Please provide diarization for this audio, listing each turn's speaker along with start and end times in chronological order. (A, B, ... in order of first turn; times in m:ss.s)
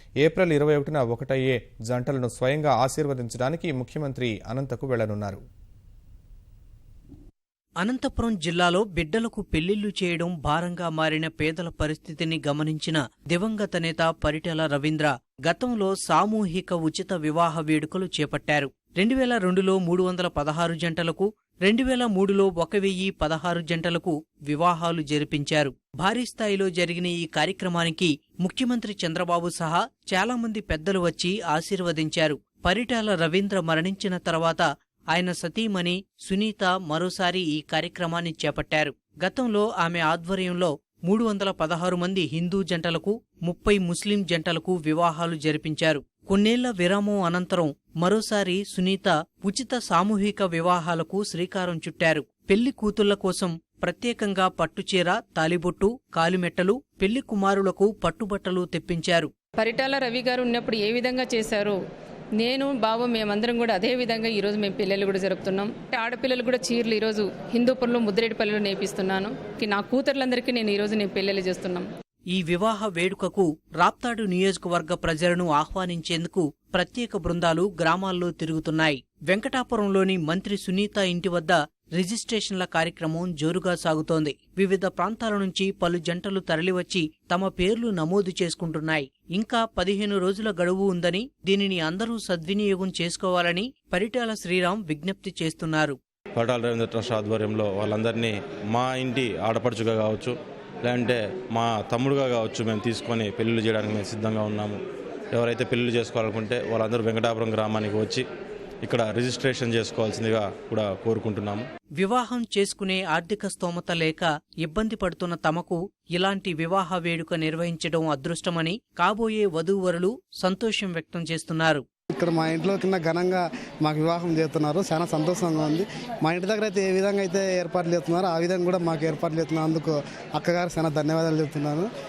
0:00.2-0:05.4 A
0:07.8-0:59.3 B
0:59.6-1:01.8 C
1:02.4-1:11.9 C
1:12.3-1:36.0 B
1:36.4-1:44.8 D
1:45.3-1:48.3 D
1:48.8-1:51.7 D
1:52.0-2:01.8 B
2:02.2-2:11.9 E